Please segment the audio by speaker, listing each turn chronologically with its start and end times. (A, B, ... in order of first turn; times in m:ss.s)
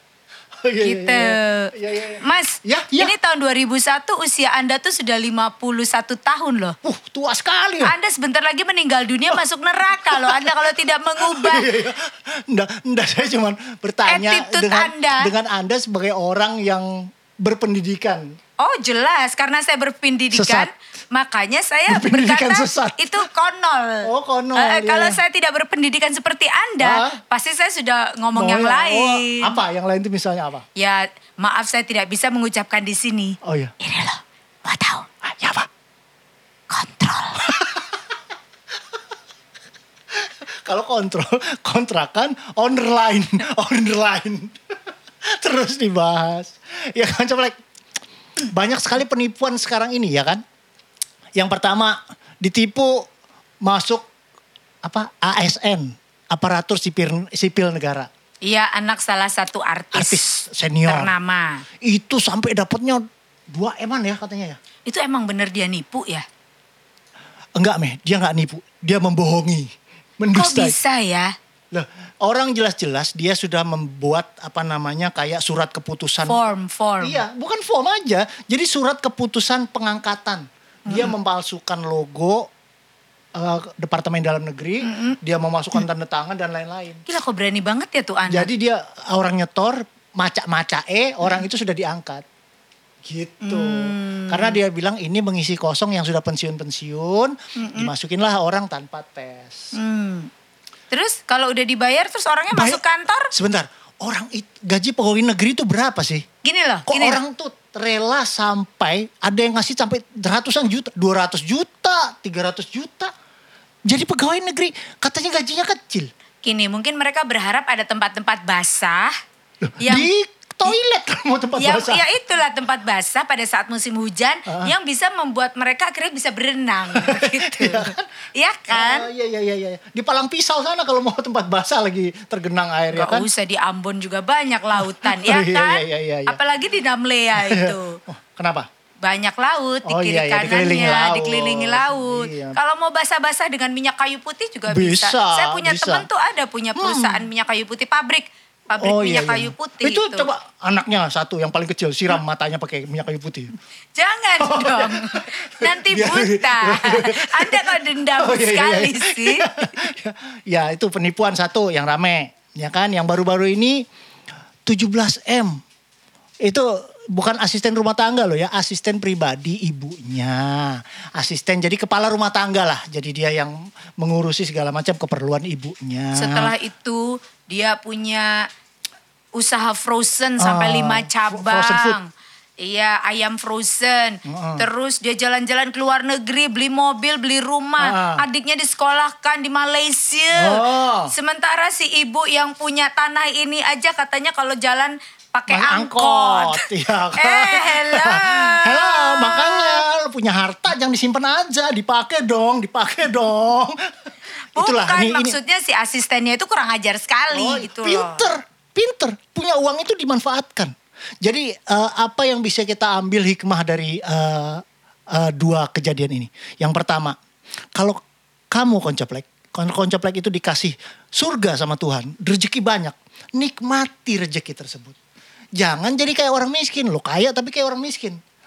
0:00.6-0:03.1 A
0:00.8-0:06.8 B
0:06.8-0:07.9 A
0:07.8-0:11.7 B
0:10.0-0:18.3 A
0:14.1-0:15.3 B
0:18.6-0:29.6 B
0:20.3-0:20.7 A
0:21.9-0:23.3 A
0:24.0-0:25.2 A
0:26.8-0:27.2 A
0:28.3-0:30.6 A
0:30.8-0:35.1 B
0:33.4-0:33.7 A
0:35.2-0:35.7 A
0:36.7-0:37.5 B
0:37.4-0:38.1 A
0:40.1-0:44.6 A
0:45.2-0:47.6 A
0:48.4-0:50.4 A
0:51.4-0:53.1 A
0:53.6-0:54.1 A
0:54.8-0:58.1 A
0:58.4-1:01.6 B
0:59.9-1:01.1 A
1:01.8-1:04.6 A
1:04.9-1:06.3 B
1:07.6-1:10.8 A
1:10.3-1:11.4 B
1:11.7-1:16.4 A
1:16.2-1:17.2 B
1:17.0-1:22.5 A
1:20.9-1:21.1 B
1:23.4-1:27.0 A
1:24.8-1:25.2 B
1:27.1-1:28.5 B
1:28.3-1:32.2 A
1:33.0-1:39.8 A
1:33.4-1:34.6 B
1:37.6-1:37.9 B
1:39.7-1:40.3 B
1:40.9-1:43.3 B
1:42.5-1:46.2 A
1:46.4-1:47.2 B
1:46.9-1:53.1 A
1:53.9-1:56.1 A
1:56.4-1:59.2 B
1:59.6-2:02.0 A
1:59.8-2:00.1 B
2:01.6-2:09.1 B
2:04.5-2:04.7 A
2:06.9-2:08.1 A
2:08.7-2:13.3 A
2:12.9-2:18.0 B
2:14.8-2:16.4 A
2:17.4-2:18.7 A
2:19.0-2:30.3 B
2:19.8-2:22.6 A
2:24.7-2:26.1 A
2:26.8-2:27.3 A
2:28.8-2:33.5 A
2:34.0-2:39.8 B
2:34.4-2:43.8 A
2:44.7-2:45.6 A
2:46.4-2:56.5 A
2:56.2-2:58.5 B
2:59.4-3:16.7 B
3:00.4-3:02.0 A
3:04.2-3:04.7 A
3:07.8-3:08.2 A
3:10.3-3:11.1 A
3:15.5-3:23.9 A
3:17.2-3:19.8 B
3:24.6-3:25.4 A
3:24.6-3:28.3 B
3:27.3-3:37.2 A
3:38.5-3:45.0 A
3:45.6-3:48.2 A